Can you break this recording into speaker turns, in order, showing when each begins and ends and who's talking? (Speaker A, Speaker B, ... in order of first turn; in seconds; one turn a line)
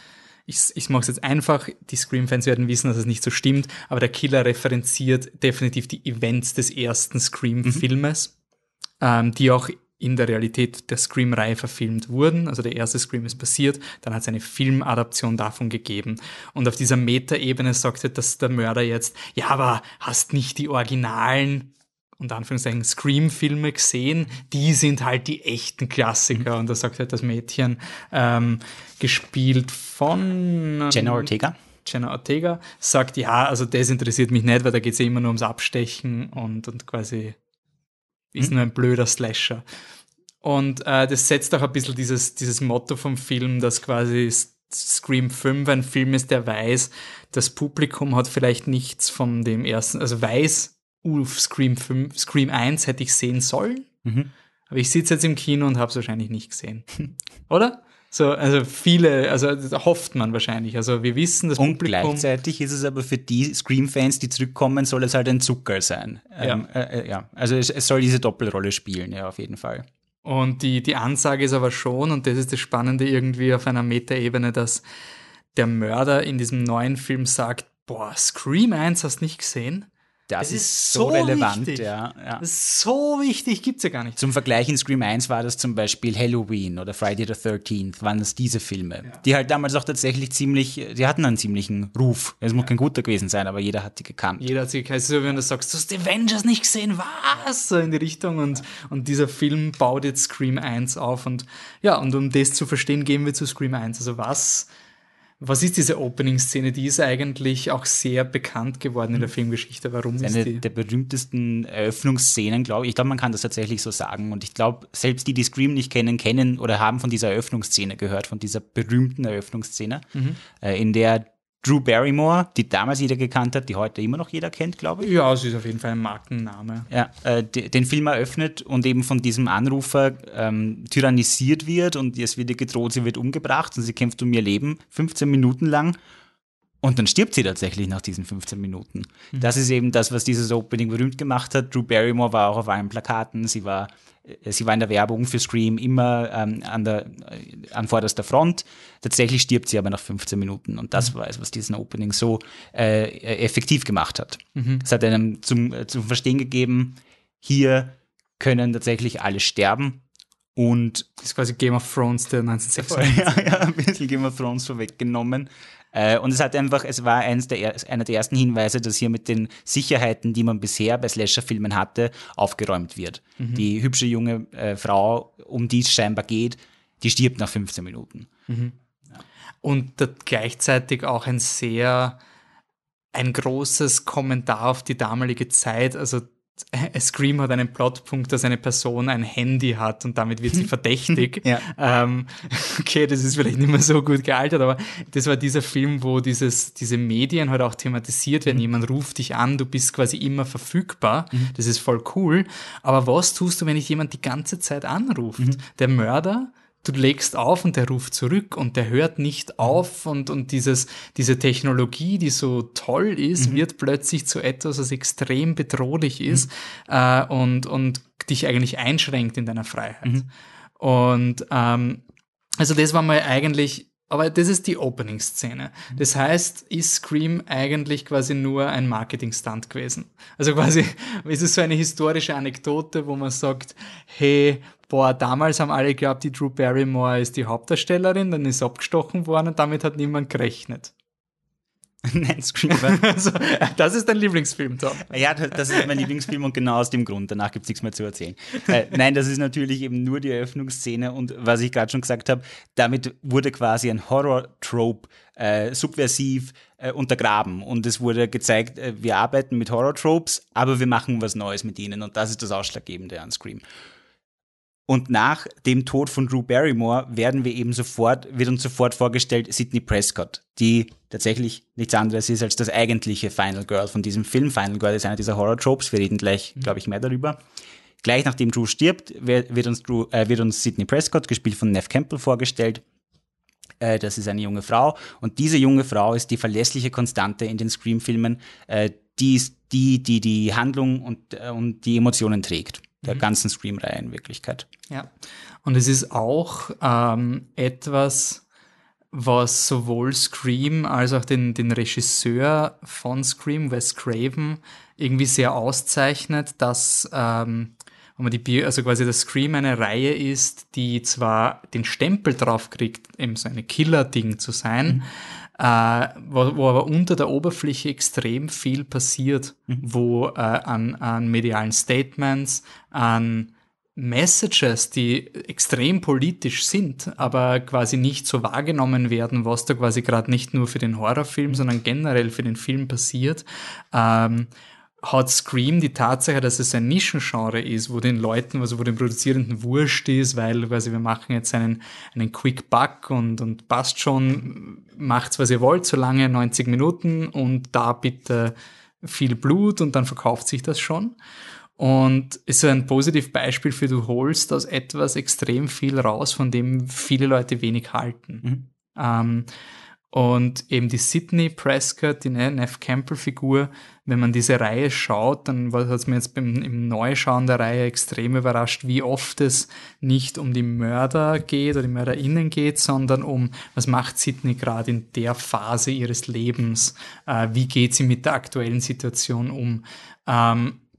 Speaker A: 0.5-8.3
Speaker A: 9.0-31.3
Speaker B: 30.9-31.6
Speaker A: 31.8-37.4
Speaker A: 38.3-39.6
Speaker A: 40.4-53.9
Speaker B: 54.0-54.3
Speaker A: 54.7-56.9
Speaker A: 57.5-62.3
Speaker B: 61.6-69.9
Speaker A: 70.2-74.8
Speaker A: 75.5-79.9
Speaker B: 80.3-82.4
Speaker A: 80.4-84.2
Speaker B: 84.2-94.5
Speaker A: 94.4-104.7
Speaker A: 105.4-110.6
Speaker B: 110.2-125.1
Speaker A: 125.0-126.9
Speaker B: 126.9-136.0
Speaker B: 136.8-160.0
Speaker A: 154.6-154.8
Speaker B: 160.6-161.1
Speaker A: 161.2-163.6
Speaker B: 162.8-178.3
Speaker A: 173.4-173.7
Speaker A: 178.5-178.7
Speaker A: 179.6-182.2
Speaker A: 183.1-222.0
Speaker A: 222.6-240.9
Speaker B: 242.1-243.0
Speaker A: 242.7-245.1
Speaker B: 245.0-263.6
Speaker B: 264.9-277.4
Speaker B: 278.0-282.8
Speaker B: 283.8-294.7
Speaker A: 295.6-298.4
Speaker A: 299.1-334.5
Speaker A: 335.0-351.2
Speaker A: 351.8-359.5
Speaker A: 360.1-380.8